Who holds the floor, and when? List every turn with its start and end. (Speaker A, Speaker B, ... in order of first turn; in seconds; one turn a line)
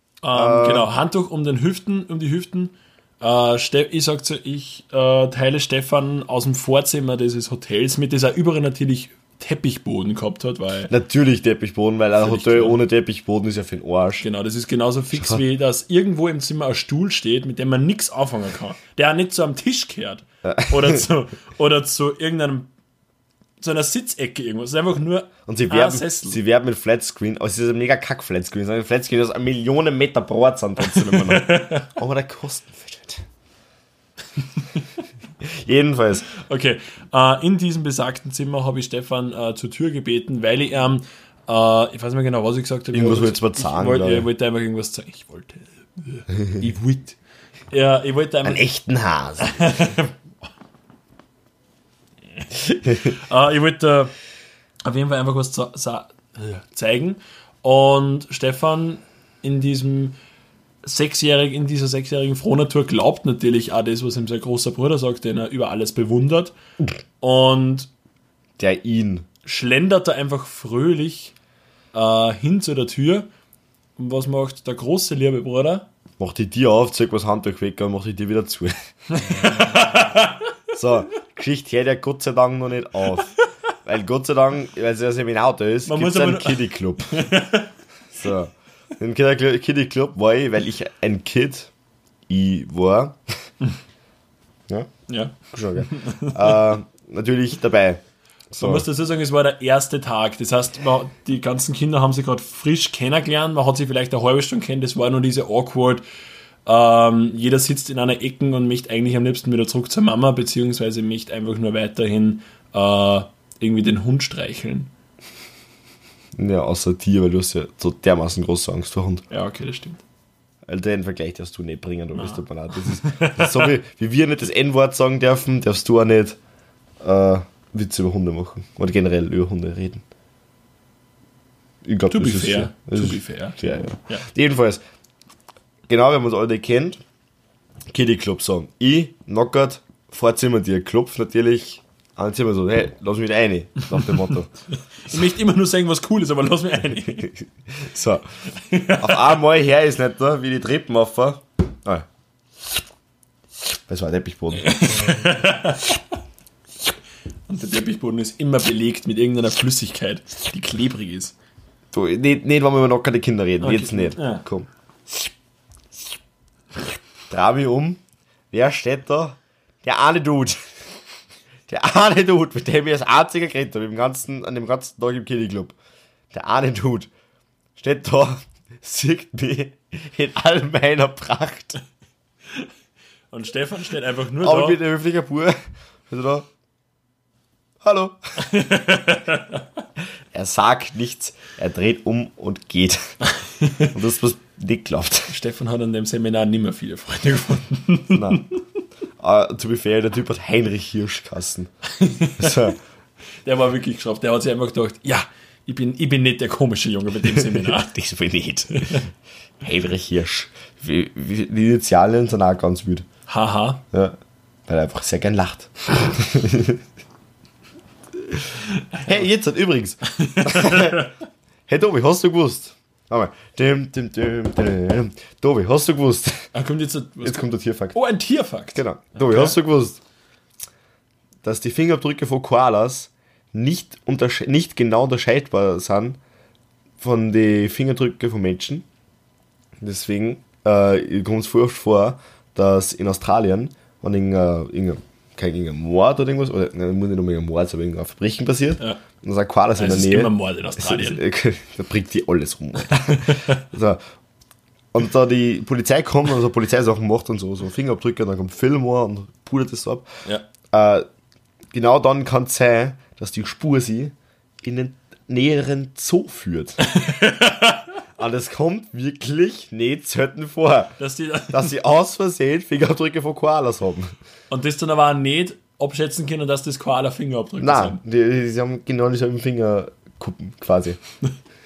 Speaker A: 0.2-10.9
Speaker B: 0.3-0.9
Speaker B: 10.9-14.2
Speaker A: 12.2-12.8
Speaker A: 14.2-22.7
Speaker B: 15.1-15.4
Speaker B: 20.4-21.0
Speaker A: 23.6-26.4
Speaker B: 25.5-33.2
Speaker A: 30.8-31.9
Speaker B: 35.4-36.3
Speaker A: 36.3-47.2
Speaker B: 42.9-44.3
Speaker A: 47.7-48.6
Speaker B: 48.4-49.8
Speaker A: 49.4-50.1
Speaker A: 53.0-54.1
Speaker A: 54.8-60.2
Speaker A: 60.8-66.5
Speaker A: 67.2-67.9
Speaker B: 68.6-69.2
Speaker A: 69.4-71.3
Speaker A: 71.9-73.3
Speaker A: 74.0-75.9
Speaker B: 76.2-78.7
Speaker A: 79.1-80.5
Speaker B: 79.3-79.8
Speaker B: 80.7-83.3
Speaker B: 83.8-87.2
Speaker A: 85.8-87.7
Speaker B: 88.1-91.7
Speaker B: 92.3-93.2
Speaker A: 95.1-96.5
Speaker B: 95.5-98.9
Speaker A: 98.6-106.0
Speaker A: 106.7-114.9
Speaker B: 116.4-119.2
Speaker A: 119.3-120.0
Speaker B: 120.6-126.4
Speaker A: 122.1-123.8
Speaker B: 127.0-130.0
Speaker B: 131.8-134.8
Speaker A: 132.1-134.2
Speaker B: 135.9-137.0
Speaker B: 137.9-144.5
Speaker A: 145.0-147.3
Speaker B: 147.2-148.3
Speaker A: 148.6-149.3
Speaker B: 148.9-152.1
Speaker B: 153.9-155.2
Speaker A: 154.6-155.9
Speaker A: 157.5-161.3
Speaker B: 161.9-165.3
Speaker A: 163.6-164.4
Speaker B: 167.3-168.0
Speaker B: 168.5-170.6
Speaker B: 171.7-175.8
Speaker B: 176.3-177.1
Speaker B: 177.8-181.8
Speaker A: 183.3-184.8
Speaker B: 184.4-186.5
Speaker B: 187.8-188.4
Speaker A: 188.4-189.6
Speaker B: 190.3-193.0
Speaker A: 193.3-193.9
Speaker B: 193.9-195.3
Speaker A: 195.3-198.5
Speaker B: 198.1-198.4
Speaker B: 199.2-201.7
Speaker A: 201.9-202.7
Speaker B: 202.4-202.8
Speaker A: 203.4-207.9
Speaker B: 207.3-209.1
Speaker A: 208.7-209.0
Speaker B: 209.6-213.1
Speaker A: 213.3-213.8
Speaker B: 214.7-216.8
Speaker A: 218.8-219.2
Speaker B: 219.0-221.1
Speaker A: 220.1-221.1
Speaker B: 221.7-226.5
Speaker A: 226.5-229.6
Speaker B: 227.2-228.0
Speaker B: 228.7-230.0
Speaker B: 231.4-236.2
Speaker B: 237.0-238.8
Speaker B: 239.8-254.0
Speaker A: 249.7-251.2
Speaker A: 252.9-253.6
Speaker B: 254.9-260.1
Speaker B: 260.7-261.1
Speaker B: 261.7-266.8
Speaker A: 266.8-267.9
Speaker B: 268.2-271.0
Speaker A: 271.0-271.7
Speaker B: 271.5-274.1
Speaker A: 274.5-278.0
Speaker B: 277.6-281.0